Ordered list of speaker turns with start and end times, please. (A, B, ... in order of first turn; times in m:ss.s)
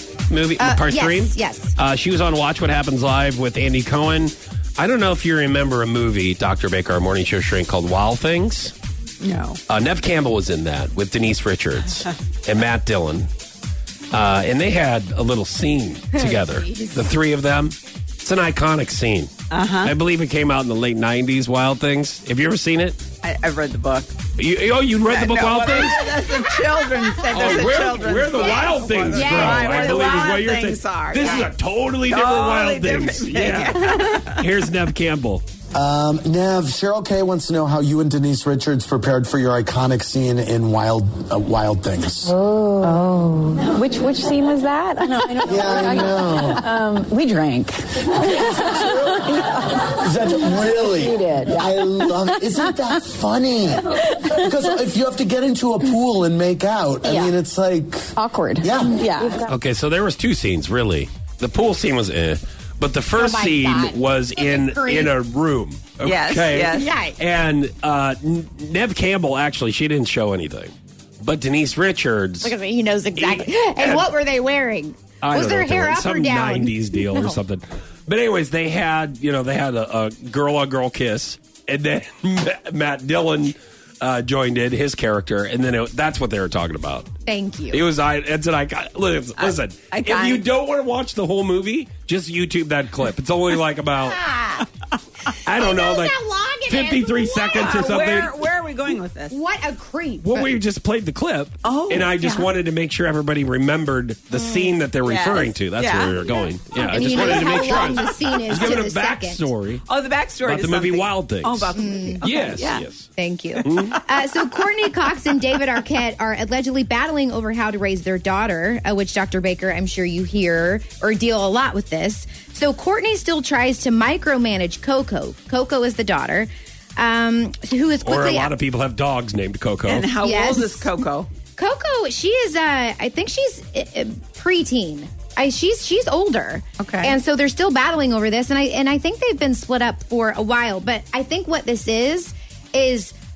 0:00.3-0:08.7 A
0:00.6-0:01.8 B
0:09.2-0:09.6 C
0:09.7-0:13.3 A
0:14.1-0:19.3 A
0:16.3-0:17.0 B
0:19.5-0:19.9 C
0:19.8-0:23.0 A
0:23.2-0:24.2 C
0:24.4-0:26.1 A
0:25.1-0:31.5 C
0:27.3-0:35.4 A
0:28.4-0:30.1 B
0:32.1-0:34.4 C
0:35.7-0:42.4 D
0:42.3-0:49.8 E
0:45.4-0:46.7 D
0:48.2-0:59.0 D
0:51.0-0:51.6 E
0:58.2-0:59.4 E
0:59.0-0:59.4 C
0:59.4-1:12.6 A
1:03.1-1:05.2 B
1:06.0-1:06.9 C
1:06.7-1:07.2 B
1:12.4-1:17.4 B
1:13.2-1:14.1 A
1:15.2-1:27.1 A
1:27.3-1:27.8 B
1:27.7-1:34.2 A
1:29.4-1:30.4 C
1:34.0-1:34.6 B
1:35.5-1:38.4 A
1:35.5-1:38.2 B
1:37.6-1:39.4 C
1:39.3-1:40.5 B
1:40.2-1:49.8 A
1:41.6-1:42.5 C
1:45.0-1:46.4 C
1:46.7-1:49.5 B
1:49.9-1:52.8 C
1:50.5-1:53.1 A
1:51.7-1:52.2 B
1:53.2-2:08.6 B
1:53.6-1:54.0 A
1:53.7-1:54.0 C
2:08.0-2:10.1 A
2:09.9-2:11.3 C
2:10.2-2:10.9 B
2:11.6-2:23.1 B
2:16.8-2:17.2 C